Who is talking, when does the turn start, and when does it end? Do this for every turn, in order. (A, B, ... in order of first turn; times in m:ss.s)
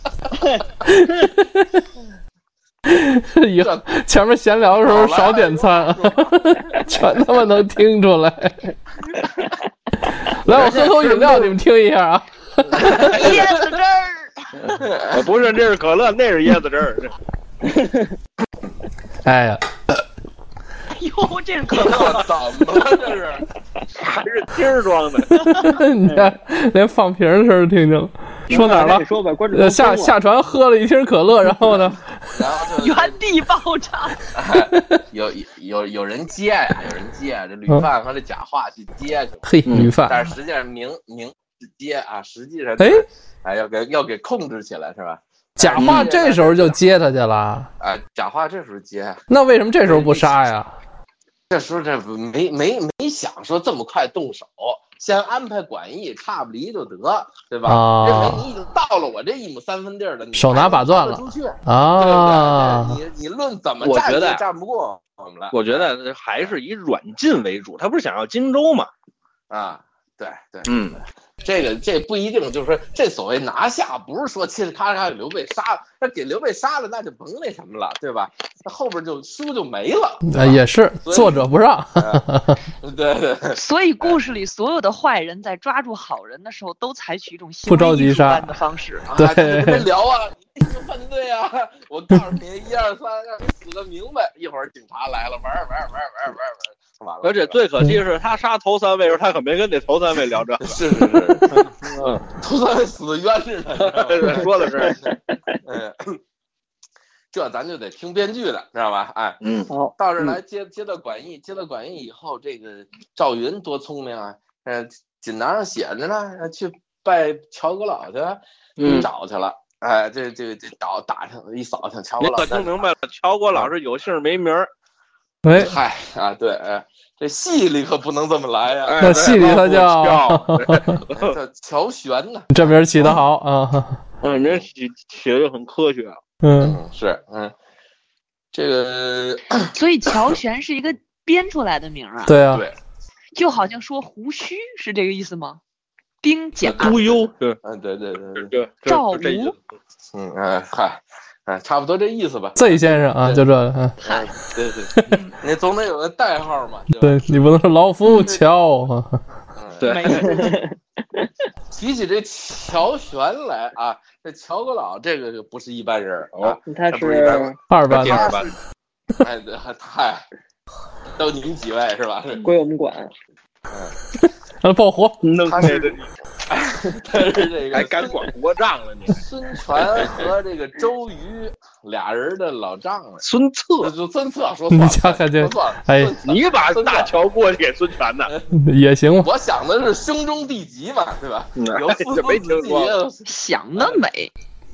0:00.3-0:00.9 A
0:00.8-0:01.8 B
0:02.9-0:08.6 B
0:03.6-0:03.9 C
0:04.8-0:07.0 C
0:10.1-0:13.4 B
0:10.5-0:11.1 C
0:12.7-0:13.6 C
0:12.8-0:14.7 D
0:14.6-0:17.1 E
0:14.7-0:15.3 C
0:17.6-0:18.1 A
0:19.2-0:20.0 B
0:20.9-0:22.4 D
0:21.7-0:23.5 C
0:23.9-0:25.5 E
0:25.4-0:25.7 D
0:25.5-0:32.1 B
0:26.0-0:26.3 A
0:28.5-0:30.2 A
0:32.3-0:33.2 C
0:32.7-0:34.3 D
0:34.3-0:39.4 C
0:34.7-0:35.0 B
0:39.5-0:40.3 B
0:39.6-0:39.9 E
0:40.0-0:46.8 C
0:42.8-0:43.0 B
0:45.6-0:47.7 B
0:45.8-0:46.1 E
0:47.8-0:49.2 C
0:49.3-0:50.7 B
0:49.8-0:50.3 C
0:51.5-1:06.5 C
0:57.6-0:58.5 B
1:00.3-1:03.0 B
1:03.8-1:04.4 E
1:05.5-1:08.9 E
1:09.5-1:10.7 C
1:10.6-1:11.0 E
1:11.4-1:22.2 C
1:20.2-1:22.6 B
1:22.8-1:24.2 C
1:23.5-1:29.1 D
1:27.6-1:28.5 B
1:29.1-1:37.6 C
1:29.1-1:29.9 B
1:37.2-1:42.2 E
1:40.6-1:41.7 C
1:42.3-1:45.1 C
1:43.8-1:45.0 E
1:44.7-1:45.6 A
1:45.6-1:46.2 C
1:47.3-2:02.9 C
1:49.4-1:49.7 E
1:49.7-1:50.3 A
1:58.8-1:59.1 E
2:02.2-2:04.7 E
2:05.4-2:05.7 B
2:05.5-2:09.7 C
2:08.9-2:11.4 E
2:09.0-2:11.0 B
2:11.1-2:13.2 C
2:12.5-2:14.0 B
2:14.2-2:16.2 E
2:16.4-2:16.8 B
2:16.6-2:17.5 C
2:18.5-2:19.7 C
2:19.7-2:22.4 D
2:22.2-2:22.6 B
2:23.4-2:25.6 D
2:26.2-2:27.2 D
2:26.6-2:28.5 C
2:26.8-2:27.6 E
2:28.4-2:29.6 E
2:28.9-2:29.6 D
2:30.1-2:33.4 C
2:32.6-2:34.0 B
2:34.0-2:37.2 C
2:34.9-2:35.2 B
2:37.0-2:39.2 B
2:39.6-2:40.2 C
2:39.8-2:40.5 E
2:39.9-2:40.6 D
2:40.0-2:41.2 A
2:41.7-2:48.6 C
2:46.7-2:47.6 A
2:47.7-2:48.3 B
2:47.9-2:48.5 E
2:49.2-2:50.2 C
2:51.2-2:52.5 C
2:52.4-2:53.1 A
2:53.7-2:54.0 C
2:54.6-2:55.2 B
2:55.2-2:56.1 E
2:55.4-2:58.3 C
2:57.7-2:59.2 E
2:59.1-3:03.2 C
2:59.9-3:00.2 E
3:03.2-3:03.9 E
3:03.8-3:07.1 C
3:04.7-3:06.2 B
3:06.2-3:08.3 E
3:08.5-3:09.3 B
3:09.2-3:13.2 C
3:11.6-3:13.0 E
3:13.2-3:14.3 D